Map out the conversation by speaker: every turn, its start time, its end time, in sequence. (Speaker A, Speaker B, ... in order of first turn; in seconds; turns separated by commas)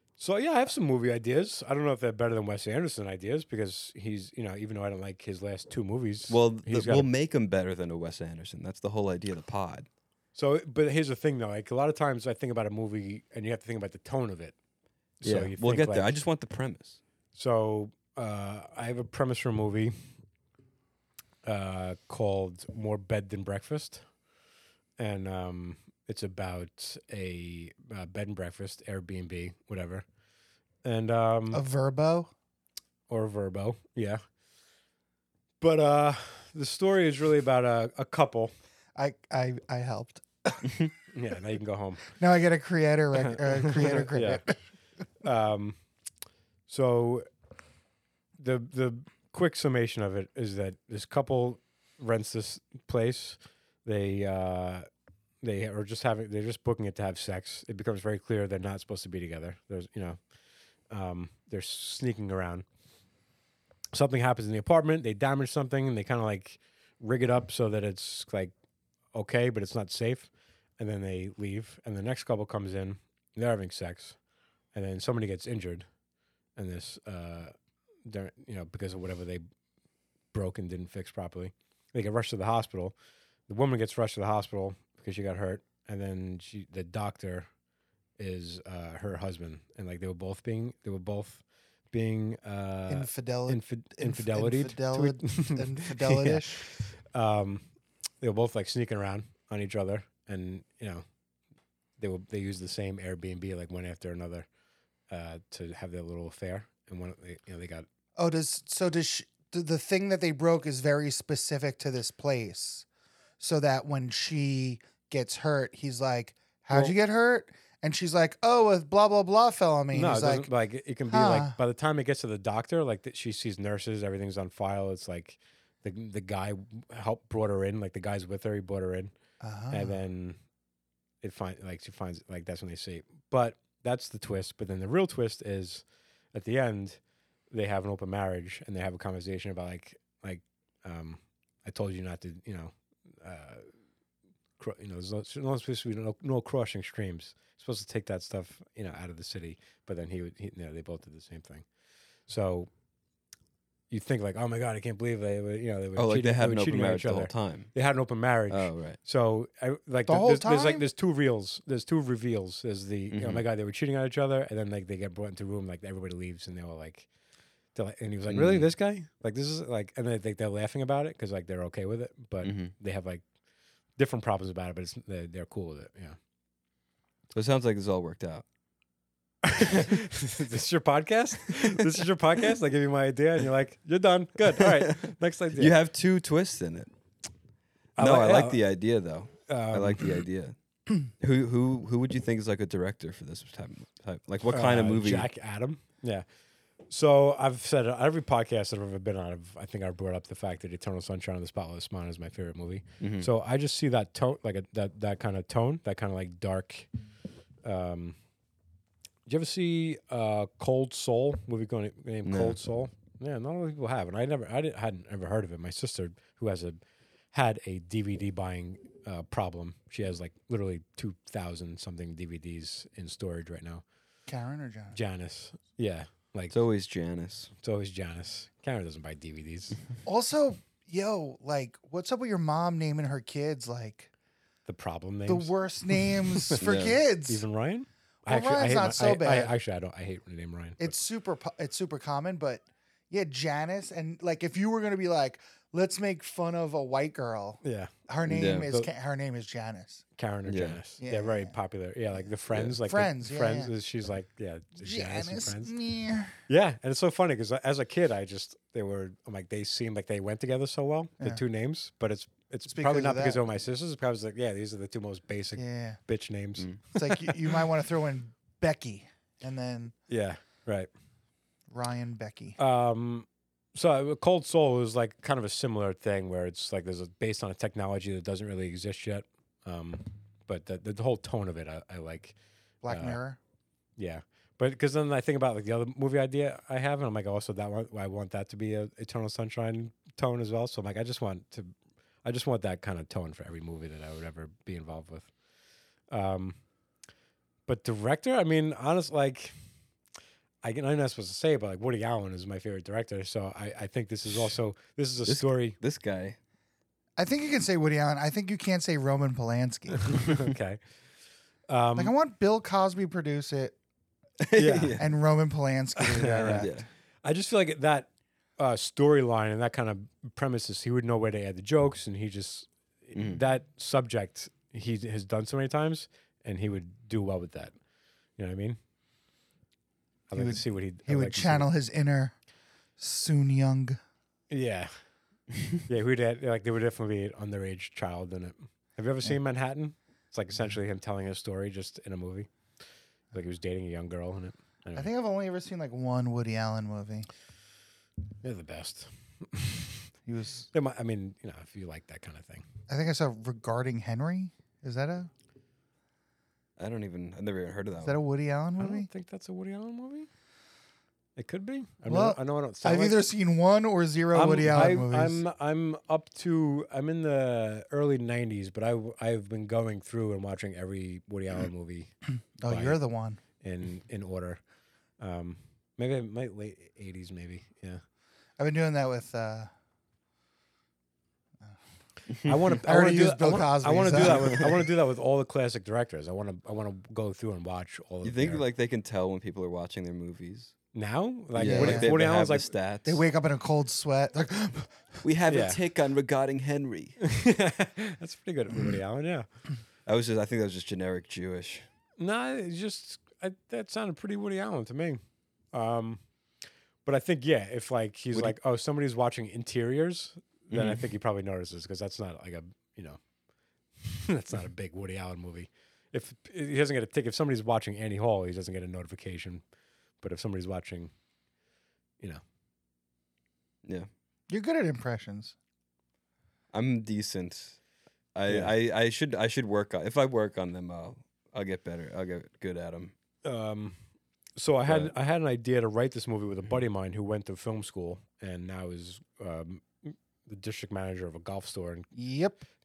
Speaker A: 0.2-7.1, Speaker B: 6.3-9.9, Speaker A: 10.3-14.6, Speaker A: 15.2-16.1, Speaker B: 15.2-17.0, Speaker A: 17.4-20.1, Speaker A: 21.4-24.0, Speaker A: 25.0-30.1, Speaker A: 30.9-31.6, Speaker C: 31.5-32.3, Speaker A: 33.1-34.2, Speaker A: 35.6-38.5, Speaker C: 39.0-40.8, Speaker A: 41.1-42.1, Speaker C: 42.2-44.6, Speaker A: 43.1-44.4, Speaker A: 45.2-45.8, Speaker A: 46.7-47.3, Speaker A: 48.4-54.9, Speaker A: 55.4-60.2, Speaker A: 60.9-62.6, Speaker A: 63.9-68.5, Speaker A: 69.1-74.2, Speaker A: 74.7-75.9, Speaker A: 76.6-77.5, Speaker A: 78.0-79.4, Speaker A: 80.3-82.9, Speaker A: 83.5-87.5, Speaker A: 88.2-97.7, Speaker C: 92.9-96.6, Speaker A: 98.2-101.0, Speaker A: 102.0-104.5, Speaker A: 105.1-107.9, Speaker C: 108.2-112.9, Speaker C: 113.4-120.5, Speaker A: 119.9-129.1, Speaker C: 121.1-121.6, Speaker C: 129.4-130.0, Speaker A: 129.7-130.4, Speaker A: 131.2-137.0, Speaker A: 137.5-143.7, Speaker A: 144.6-151.7, Speaker A: 152.3-152.7, Speaker A: 153.9-167.1, Speaker B: 156.0-157.7, Speaker B: 158.5-159.0, Speaker C: 160.1-160.8, Speaker B: 163.1-163.4, Speaker A: 167.7-173.2, Speaker B: 168.3-168.7, Speaker B: 172.4-172.7, Speaker A: 174.0-176.2, Speaker B: 177.3-178.4, Speaker A: 179.4-185.8, Speaker B: 181.6-181.9, Speaker B: 184.6-184.9, Speaker B: 185.5-186.9, Speaker A: 188.0-188.6, Speaker B: 188.0-190.6, Speaker A: 189.5-190.1, Speaker B: 191.1-195.3, Speaker A: 194.5-196.2, Speaker A: 196.9-206.9, Speaker B: 203.0-203.3, Speaker A: 207.6-208.2, Speaker A: 209.3-216.8, Speaker B: 212.2-212.6, Speaker A: 217.3-223.8, Speaker C: 224.3-225.0, Speaker A: 224.9-226.6, Speaker B: 226.5-227.5, Speaker A: 227.6-229.8, Speaker C: 230.1-234.1, Speaker A: 234.7-236.7, Speaker C: 235.3-237.4, Speaker B: 236.6-237.0, Speaker A: 237.3-241.0, Speaker C: 238.2-239.5, Speaker C: 240.8-250.0, Speaker A: 247.6-247.9, Speaker B: 248.3-248.7, Speaker A: 250.2-255.7, Speaker B: 250.5-250.8, Speaker C: 251.0-251.5, Speaker B: 252.5-252.8, Speaker C: 252.9-253.7, Speaker C: 254.8-256.4, Speaker A: 256.5-267.6, Speaker C: 262.7-263.5, Speaker C: 265.6-266.0, Speaker C: 266.9-269.9, Speaker A: 270.1-270.9, Speaker C: 271.7-272.6, Speaker A: 272.6-282.4, Speaker C: 282.8-283.4, Speaker A: 282.9-283.2, Speaker A: 284.0-291.7, Speaker A: 292.2-295.3, Speaker A: 296.1-296.6, Speaker A: 297.7-299.5, Speaker A: 300.6-305.8, Speaker B: 305.2-306.4, Speaker C: 307.2-310.2, Speaker A: 310.0-310.8, Speaker A: 311.7-312.1, Speaker C: 312.0-313.8, Speaker B: 314.4-315.1, Speaker A: 314.6-315.0, Speaker C: 315.0-316.8, Speaker A: 316.0-316.7, Speaker B: 316.5-316.9, Speaker A: 317.2-327.7, Speaker B: 323.1-323.4, Speaker A: 328.4-328.8, Speaker A: 330.3-331.7, Speaker C: 330.3-332.4, Speaker C: 333.0-334.0, Speaker A: 334.5-334.9, Speaker A: 335.9-342.5, Speaker A: 343.3-345.1, Speaker C: 345.0-347.3, Speaker A: 348.4-350.1, Speaker C: 350.2-350.7, Speaker A: 350.7-352.6, Speaker C: 352.9-355.3, Speaker B: 356.8-358.2, Speaker C: 358.0-359.1, Speaker A: 358.8-360.3, Speaker A: 361.4-363.2, Speaker C: 362.1-365.4, Speaker A: 364.3-372.1, Speaker C: 372.6-373.4, Speaker A: 372.7-373.0, Speaker A: 373.6-374.6, Speaker A: 375.2-378.0, Speaker C: 378.6-379.7, Speaker B: 382.3-382.6, Speaker A: 382.4-388.6, Speaker C: 382.7-384.9, Speaker B: 388.2-390.7, Speaker A: 390.9-392.7, Speaker B: 391.5-393.2, Speaker C: 391.6-392.1, Speaker C: 393.1-395.2, Speaker B: 395.2-397.2, Speaker A: 395.5-395.8, Speaker A: 397.2-399.5, Speaker B: 400.1-401.9, Speaker A: 402.2-405.2, Speaker A: 405.7-406.2, Speaker A: 407.1-413.2, Speaker B: 410.7-411.0, Speaker A: 414.0-419.6, Speaker A: 420.2-421.1, Speaker C: 424.5-425.6, Speaker B: 426.7-427.8, Speaker B: 428.4-433.1, Speaker A: 428.5-428.7, Speaker A: 433.4-434.0, Speaker A: 434.6-442.1, Speaker B: 434.9-435.1, Speaker C: 442.1-442.6